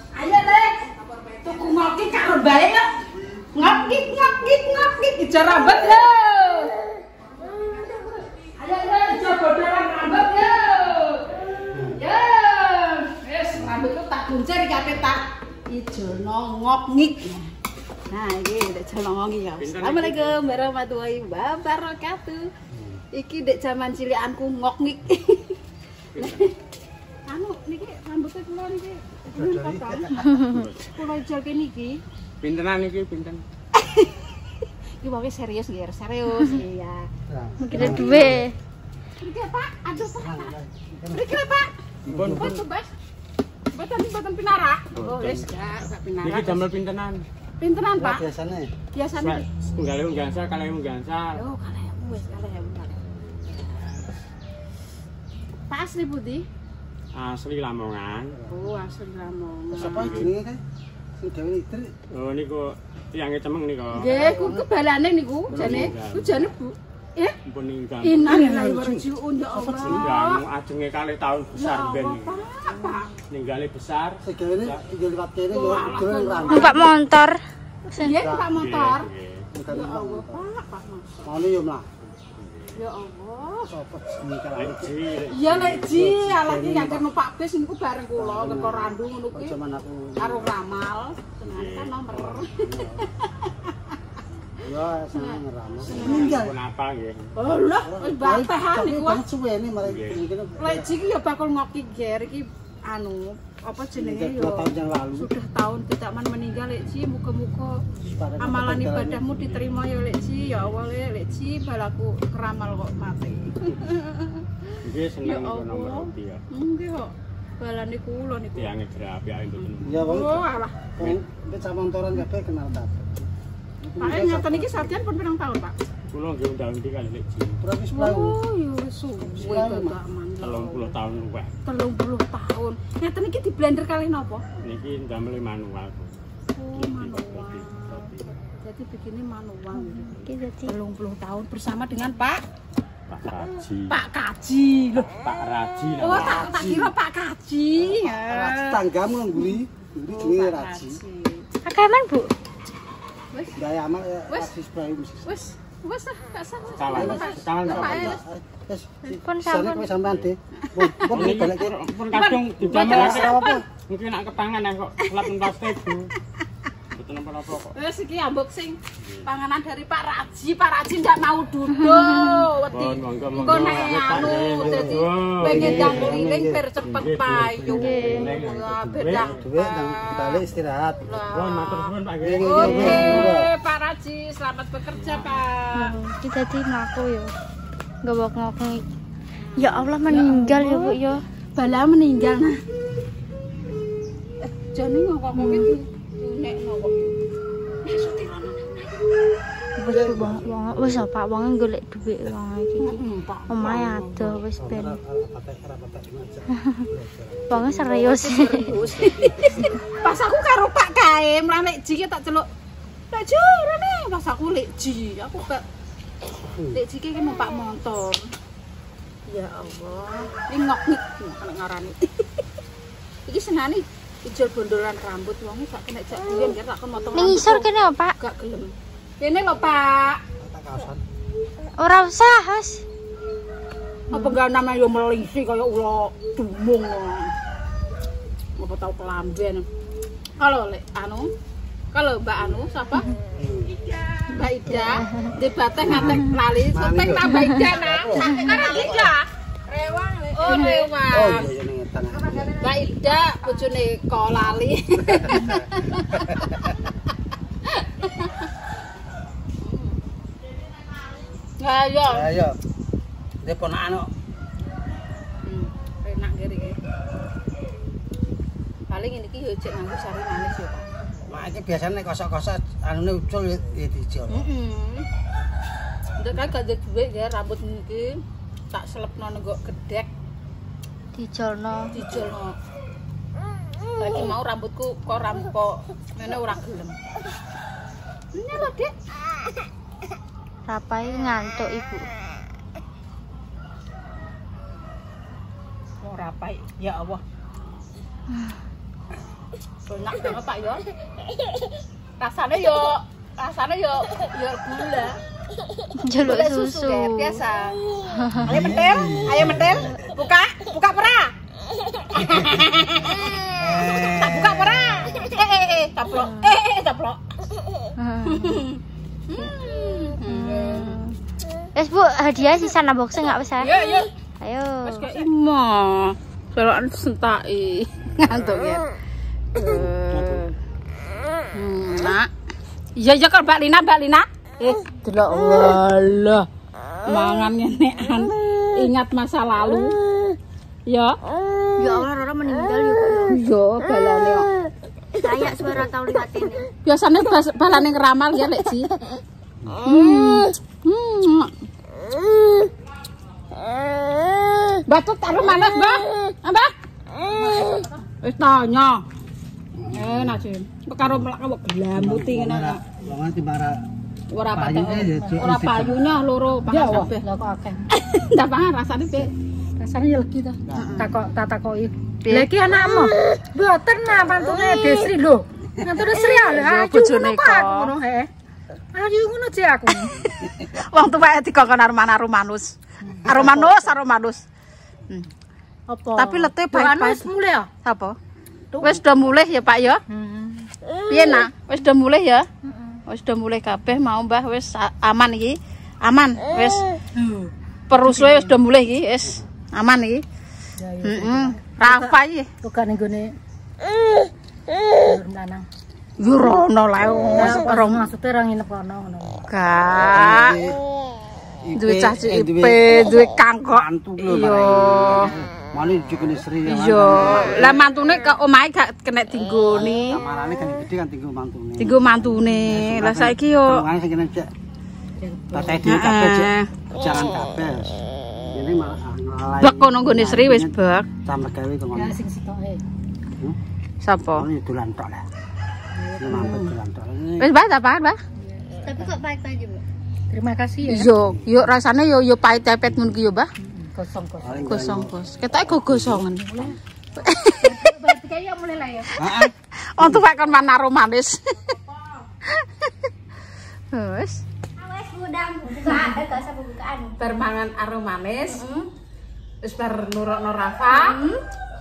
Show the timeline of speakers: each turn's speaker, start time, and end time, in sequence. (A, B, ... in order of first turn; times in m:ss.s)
0:00.1-0:02.9 A
0:03.5-0:06.9 A
0:07.4-0:11.4 A
0:11.7-0:12.0 B
0:11.9-0:17.5 A
0:18.1-0:22.5 A
0:19.6-0:20.4 C
0:22.7-0:23.0 B
0:23.1-0:25.6 A
0:26.1-0:26.5 C
0:26.2-0:26.5 A
0:27.3-0:30.1 A
0:29.4-0:30.1 B
0:30.1-0:30.6 D
0:30.5-0:30.9 C
0:30.9-0:32.0 A
0:32.4-0:33.4 C
0:33.7-0:34.4 A
0:35.0-0:37.1 A
0:37.3-0:38.4 B
0:37.6-0:38.6 D
0:37.7-0:38.3 A
0:39.2-0:40.5 A
0:40.2-0:41.3 B
0:41.1-0:41.7 A
0:42.1-0:42.6 B
0:42.1-0:42.5 C
0:42.3-0:42.9 A
0:43.7-0:46.7 A
0:44.9-0:45.6 C
0:46.2-0:47.2 C
0:47.6-0:48.2 A
0:48.0-0:48.7 B
0:48.9-0:49.5 A
0:49.2-0:51.4 C
0:51.4-0:54.1 A
0:55.7-0:56.4 A
0:57.1-0:58.4 C
0:58.5-1:00.2 A
0:59.7-1:00.4 C
0:59.8-1:00.6 B
1:01.2-1:02.0 B
1:02.1-1:04.3 C
1:03.9-1:07.4 A
1:04.0-1:04.7 B
1:05.5-1:06.5 C
1:05.5-1:05.9 B
1:07.5-1:08.6 C
1:08.0-1:10.4 A
1:08.3-1:10.1 B
1:09.8-1:12.4 C
1:11.6-1:13.1 A
1:13.3-1:14.8 C
1:14.2-1:16.9 B
1:15.5-1:16.9 A
1:16.5-1:17.4 D
1:17.9-1:19.1 A
1:18.1-1:18.6 B
1:18.5-1:19.4 C
1:19.5-1:20.5 B
1:19.7-1:21.3 A
1:21.2-1:21.9 B
1:22.2-1:22.7 C
1:22.8-1:23.7 A
1:23.6-1:24.9 B
1:24.6-1:26.0 C
1:25.3-1:29.6 A
1:25.6-1:27.1 B
1:28.1-1:30.6 B
1:30.2-1:33.7 A
1:31.4-1:32.4 C
1:32.6-1:33.0 B
1:34.6-1:36.6 B
1:35.1-1:36.4 A
1:35.9-1:37.3 C
1:37.4-1:39.2 A
1:37.8-1:40.9 B
1:39.8-1:40.2 C
1:40.6-1:47.8 A
1:44.0-1:45.3 B
1:48.2-1:49.3 B
1:48.4-1:54.4 A
1:49.3-1:50.7 C
1:53.6-1:53.9 C
1:54.8-1:56.4 C
1:55.2-1:58.7 A
1:58.5-2:00.2 C
1:59.6-2:00.9 A
1:59.8-2:03.3 B
2:03.8-2:05.0 B
2:04.0-2:05.8 A
2:06.1-2:07.6 C
2:07.6-2:08.4 B
2:07.9-2:11.0 A
2:09.3-2:10.0 B
2:10.4-2:11.5 C
2:11.6-2:14.4 A
2:14.6-2:16.2 C
2:16.6-2:20.2 A
2:16.7-2:18.4 C
2:19.7-2:20.7 D
2:20.7-2:22.4 A
2:23.1-2:24.0 C
2:23.9-2:25.1 A
2:25.1-2:26.6 C
2:26.0-2:28.8 A
2:26.3-2:26.9 B
2:28.2-2:31.0 B
2:30.1-2:31.5 A
2:31.6-2:32.3 D
2:33.6-2:35.4 B
2:35.2-2:38.2 A
2:36.8-2:38.2 C
2:36.9-2:41.7 B
2:39.1-2:39.9 D
2:40.0-2:40.3 C
2:40.6-2:41.4 A
2:41.1-2:46.1 C
2:42.1-2:43.6 A
2:42.6-2:43.6 B
2:45.0-2:45.3 A
2:47.0-2:47.8 C
2:47.7-3:00.5 A
2:49.0-2:49.3 C
2:51.7-2:52.4 D
2:52.7-2:56.2 C
2:53.5-2:56.7 B
2:56.8-2:59.5 C
2:57.7-2:58.3 D
2:59.0-3:01.1 B
3:01.0-3:06.0 A
3:01.2-3:03.3 C
3:02.2-3:03.5 B
3:02.7-3:03.2 D
3:04.9-3:05.4 C
3:05.7-3:07.3 D
3:08.0-3:08.8 D
3:09.4-3:11.0 A
3:09.6-3:11.2 D
3:11.6-3:12.6 A
3:14.4-3:17.2 A
3:15.4-3:15.7 D
3:17.8-3:19.0 A
3:19.8-3:25.0 D
3:19.9-3:21.0 B
3:22.8-3:24.4 A
3:24.6-3:27.6 B
3:27.5-3:28.7 D
3:27.6-3:32.5 A
3:28.7-3:29.7 B
3:33.1-3:35.6 A
3:36.4-3:36.8 B
3:36.7-3:38.2 A
3:39.3-3:42.4 A
3:43.3-3:47.7 A
3:47.1-3:48.2 D
3:48.2-3:50.2 A
3:50.4-3:51.0 B
3:51.8-3:52.8 D
3:54.1-3:57.3 A
3:58.6-3:59.7 A
4:00.4-4:01.3 A
4:01.9-4:03.1 A
4:03.4-4:03.7 B
4:03.8-4:11.5 A
4:04.7-4:05.4 D
4:05.8-4:09.1 B
4:06.0-4:06.2 D
4:10.5-4:10.8 D
4:11.1-4:12.5 B
4:12.1-4:16.6 A
4:15.2-4:15.6 B
4:17.8-4:18.5 A
4:19.6-4:20.0 A
4:21.6-4:22.3 A
4:22.1-4:22.6 B
4:23.4-4:24.1 B
4:25.4-4:26.8 A
4:28.9-4:30.9 A
4:31.3-4:34.5 B
4:34.3-4:35.1 A
4:36.2-4:38.2 A
4:38.7-4:40.1 A
4:41.1-4:42.0 D
4:41.9-4:42.6 A
4:44.0-4:47.0 A
4:48.3-4:48.9 A
4:50.7-4:52.1 D
4:51.1-4:51.3 A
4:56.0-4:57.2 A
4:59.9-5:00.8 A
5:02.2-5:05.2 A
5:06.0-5:07.4 D
5:06.2-5:07.8 A
5:08.1-5:08.6 D
5:08.4-5:09.9 B
5:08.5-5:11.3 A
5:12.1-5:17.2 A
5:12.2-5:12.6 B
5:13.6-5:14.8 B
5:16.2-5:16.5 D
5:18.0-5:18.6 D
5:18.2-5:21.0 A
5:20.3-5:21.1 D
5:21.8-5:23.8 D
5:23.6-5:24.1 A
5:24.4-5:25.1 D
5:24.8-5:28.9 A
5:29.5-5:30.5 A
5:29.6-5:30.4 B
5:31.5-5:32.3 A
5:33.0-5:36.5 A
5:37.0-5:40.0 A
5:40.9-5:41.2 A
5:41.8-5:43.4 D
5:43.3-5:44.5 A
5:45.2-5:46.7 D
5:45.4-5:45.8 B
5:46.8-5:48.9 A
5:49.8-5:51.5 A
5:54.8-5:59.0 A
5:59.8-6:00.4 B
5:59.9-6:02.8 A
6:01.9-6:03.8 B
6:04.3-6:07.3 A
6:04.5-6:06.0 B
6:05.1-6:05.4 E
6:06.7-6:07.8 E
6:07.9-6:09.3 A
6:09.8-6:12.5 E
6:10.7-6:11.2 A
6:12.2-6:13.2 A
6:13.4-6:18.3 E
6:14.0-6:15.3 A
6:16.0-6:18.0 A
6:19.0-6:20.1 E
6:19.9-6:24.4 A
6:23.1-6:23.9 E
6:25.9-6:27.7 E
6:26.1-6:27.3 A
6:27.8-6:28.2 A
6:28.7-6:29.0 E
6:28.8-6:30.0 A
6:30.1-6:30.7 E
6:31.1-6:32.5 A
6:33.1-6:36.8 A
6:37.2-6:37.5 E
6:37.9-6:40.2 A
6:38.1-6:38.5 E
6:40.8-6:43.3 E
6:41.0-6:42.5 A
6:45.0-6:45.7 E
6:46.2-6:48.1 A
6:47.3-6:49.4 E
6:49.5-6:50.6 A
6:50.1-6:50.8 B
6:51.6-6:52.9 B
6:51.8-6:55.3 A
6:53.7-6:57.8 B
6:56.6-7:00.2 A
6:59.7-7:04.5 B
7:01.8-7:03.8 A
7:05.2-7:05.9 E
7:05.5-7:12.2 B
7:05.8-7:06.7 A
7:09.6-7:11.1 A
7:11.9-7:12.8 E
7:14.0-7:14.5 A
7:14.3-7:15.3 B
7:15.9-7:16.6 E
7:16.2-7:17.5 B
7:16.3-7:16.8 A
7:17.4-7:18.2 A
7:18.5-7:19.1 E
7:18.8-7:19.8 D
7:20.3-7:21.1 E
7:20.8-7:23.5 A
7:23.8-7:24.7 E
7:24.4-7:25.1 B
7:24.6-7:28.0 A
7:25.7-7:26.2 B
7:27.6-7:29.1 E
7:29.1-7:31.8 A
7:29.2-7:30.2 B
7:32.6-7:32.9 A
7:33.9-7:34.4 A
7:34.8-7:37.2 D
7:35.9-7:36.1 A
7:37.2-7:38.6 A
7:38.5-7:38.9 D
7:39.6-7:41.2 A
7:40.9-7:41.4 D